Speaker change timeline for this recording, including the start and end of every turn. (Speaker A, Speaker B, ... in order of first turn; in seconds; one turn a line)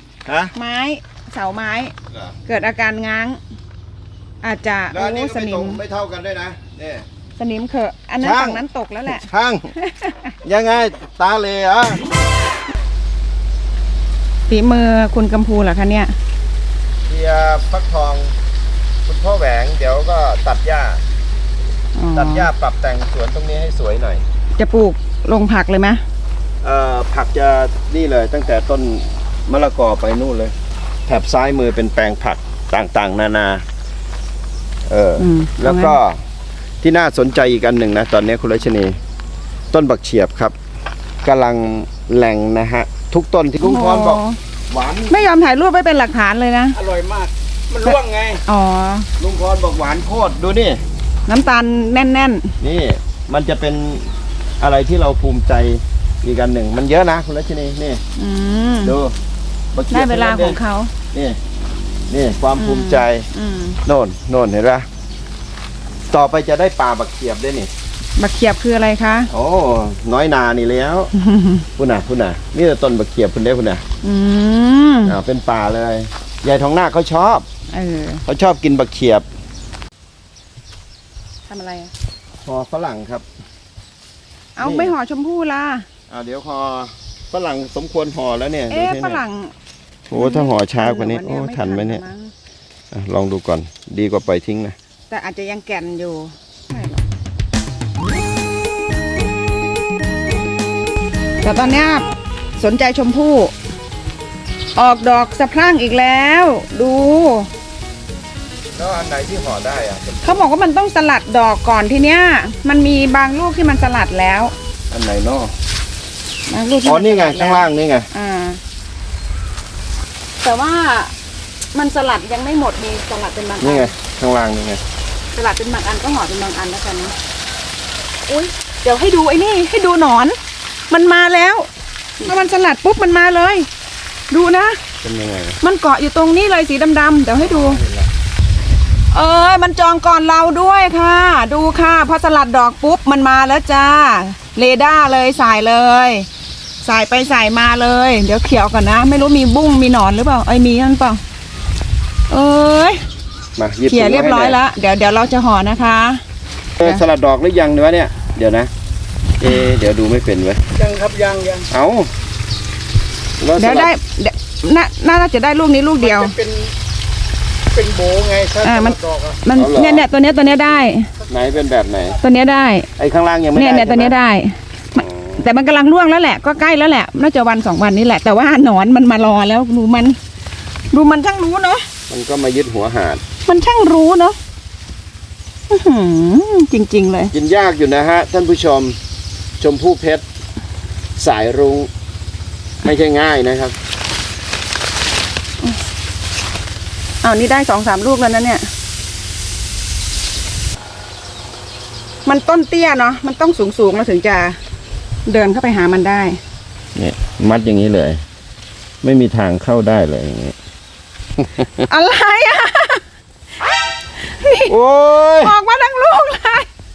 Speaker A: 0.3-0.5
Speaker B: 0.6-1.9
Speaker A: 2.1-2.4
Speaker B: 2.5-3.4
Speaker B: 4.4-5.8
Speaker A: 4.9-7.1
Speaker B: 7.4-10.3
Speaker A: 8.2-9.7
Speaker A: 10.4-12.0
Speaker B: 14.5-16.1
Speaker A: 17.1-18.4
Speaker A: 19.1-21.0
Speaker B: 22.0-22.5
Speaker A: 22.1-24.2
Speaker B: 24.6-26.0
Speaker A: 26.6-30.6
Speaker A: 31.1-33.6
Speaker A: 34.9-36.2
Speaker B: 35.2-36.0
Speaker A: 36.8-39.0
Speaker A: 39.7-40.5
Speaker A: 41.2-45.3
Speaker B: 43.6-44.4
Speaker B: 45.1-46.8
Speaker C: 46.7-48.4
Speaker B: 47.9-49.1
Speaker A: 49.2-50.8
Speaker B: 51.3-52.5
Speaker A: 52.6-58.0
Speaker B: 58.2-59.0
Speaker A: 58.8-59.1
Speaker A: 59.7-60.6
Speaker B: 59.9-60.9
Speaker A: 61.1-61.4
Speaker A: 62.1-63.3
Speaker B: 62.6-63.8
Speaker A: 63.9-64.9
Speaker A: 66.1-67.7
Speaker B: 68.2-69.3
Speaker A: 69.3-71.1
Speaker B: 71.1-71.7
Speaker A: 71.8-73.8
Speaker B: 74.0-75.2
Speaker A: 75.0-77.5
Speaker B: 77.7-78.2
Speaker A: 78.3-79.3
Speaker B: 81.5-81.9
Speaker A: 82.4-83.3
Speaker B: 84.6-85.9
Speaker A: 84.6-85.0
Speaker A: 86.1-89.2
Speaker B: 88.7-89.5
Speaker A: 90.1-92.0
Speaker B: 90.1-92.3
Speaker A: 92.9-94.8
Speaker B: 95.1-97.0
Speaker B: 101.4-103.5
Speaker B: 104.8-107.5
Speaker A: 108.8-110.5
Speaker B: 110.2-114.5
Speaker A: 114.9-115.5
Speaker B: 116.5-118.6
Speaker A: 116.8-118.1
Speaker B: 120.4-121.1
Speaker B: 121.7-123.9
Speaker A: 123.6-124.8
Speaker B: 125.3-127.1
Speaker B: 128.3-130.4
Speaker B: 130.9-131.7
Speaker B: 132.2-133.7
Speaker B: 134.3-134.8
Speaker A: 135.0-135.6
Speaker B: 135.6-137.8
Speaker A: 137.4-138.1
Speaker B: 139.1-146.3
Speaker B: 146.8-151.2
Speaker B: 152.3-153.0
Speaker A: 153.6-154.6
Speaker B: 153.9-156.2
Speaker A: 156.8-158.7
Speaker A: 159.4-160.6
Speaker C: 160.8-161.7
Speaker A: 161.7-162.1
Speaker A: 163.4-163.9
Speaker B: 163.6-166.3
Speaker C: 166.0-166.7
Speaker C: 167.7-169.4
Speaker B: 168.6-171.1
Speaker A: 169.5-170.1
Speaker A: 171.3-172.2
Speaker B: 172.2-172.9
Speaker A: 173.0-174.2
Speaker B: 173.5-180.2
Speaker A: 175.0-175.5
Speaker B: 180.9-181.9
Speaker A: 182.1-183.2
Speaker B: 183.4-184.4
Speaker B: 185.7-187.3
Speaker A: 187.3-189.0
Speaker A: 189.6-190.2
Speaker A: 191.2-191.9
Speaker A: 192.8-193.8
Speaker B: 197.2-198.7
Speaker B: 202.3-204.6
Speaker B: 205.3-206.4
Speaker A: 206.9-208.2
Speaker A: 209.0-210.6
Speaker B: 211.9-213.0
Speaker B: 214.2-214.8
Speaker A: 214.7-215.6
Speaker B: 215.4-216.7